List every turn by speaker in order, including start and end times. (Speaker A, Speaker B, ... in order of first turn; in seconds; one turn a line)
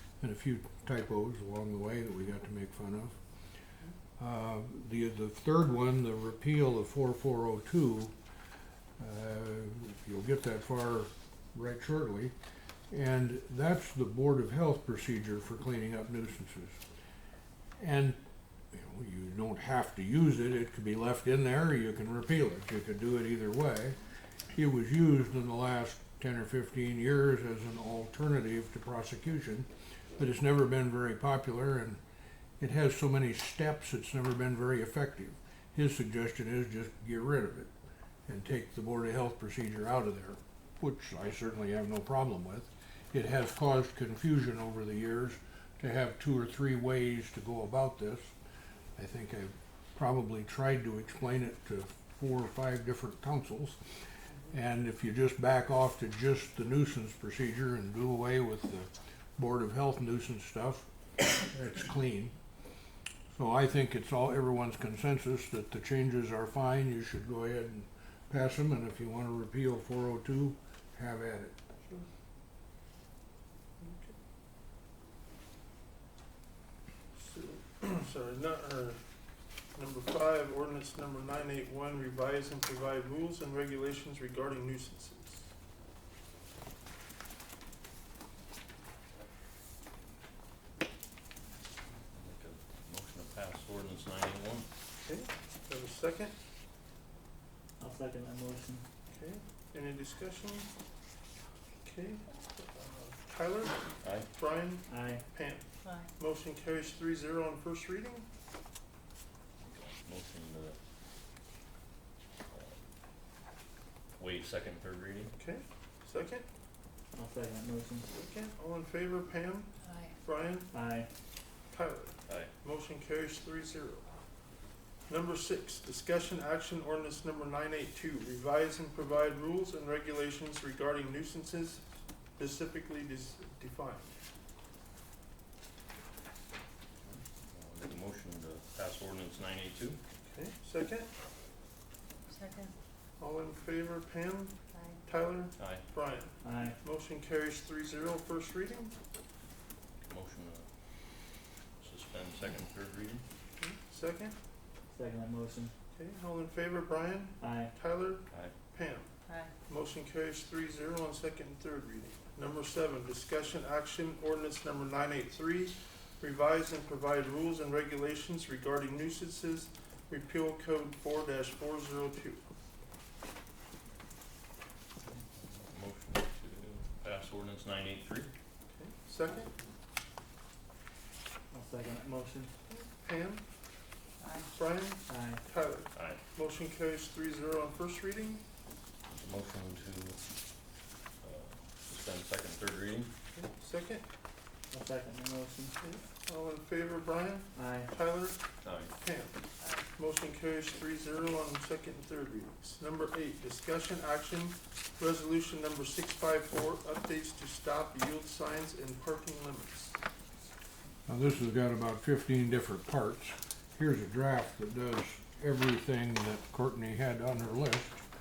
Speaker A: 0.2-3.1
Speaker A: 4.2-8.1
Speaker A: 9.0-12.3
Speaker A: 12.9-16.8
Speaker A: 17.8-18.2
Speaker A: 18.7-24.0
Speaker A: 24.6-29.7
Speaker A: 30.2-32.0
Speaker A: 32.6-37.7
Speaker A: 38.3-48.3
Speaker A: 49.0-53.8
Speaker A: 54.5-62.4
Speaker A: 63.3-71.5
Speaker B: 73.8-74.2
Speaker B: 77.2-79.0
Speaker B: 79.8-85.5
Speaker C: 92.1-94.7
Speaker B: 95.0-96.3
Speaker D: 97.8-98.8
Speaker B: 99.1-100.7
Speaker B: 101.8-108.2
Speaker C: 104.0-104.3
Speaker D: 104.9-105.2
Speaker E: 105.8-106.1
Speaker C: 109.6-110.8
Speaker C: 112.5-112.8
Speaker C: 114.2-115.3
Speaker B: 115.4-116.5
Speaker D: 117.1-118.1
Speaker B: 118.2-119.7
Speaker E: 119.8-120.1
Speaker B: 120.2-120.7
Speaker D: 120.7-121.1
Speaker B: 121.7-124.0
Speaker C: 122.3-122.5
Speaker B: 125.1-131.8
Speaker B: 132.4-134.1
Speaker C: 137.1-140.0
Speaker B: 140.3-141.1
Speaker E: 142.3-142.7
Speaker B: 143.2-144.5
Speaker E: 144.7-145.0
Speaker B: 145.1-148.9
Speaker C: 145.6-145.8
Speaker D: 146.4-146.8
Speaker C: 150.0-150.7
Speaker C: 151.8-153.2
Speaker B: 153.6-154.3
Speaker D: 154.9-155.7
Speaker B: 155.9-159.1
Speaker D: 157.4-157.7
Speaker E: 159.3-159.5
Speaker B: 159.7-172.4
Speaker C: 175.3-178.3
Speaker B: 178.7-179.5
Speaker D: 181.5-182.5
Speaker B: 182.7-183.4
Speaker E: 184.2-184.5
Speaker B: 184.6-188.4
Speaker D: 185.1-185.4
Speaker C: 185.9-186.2
Speaker C: 189.1-190.2
Speaker C: 191.2-193.1
Speaker B: 193.3-194.0
Speaker D: 194.7-195.8
Speaker B: 195.8-198.4
Speaker D: 197.6-197.9
Speaker C: 198.6-198.9
Speaker B: 199.0-199.3
Speaker B: 200.0-209.9
Speaker A: 211.1-218.0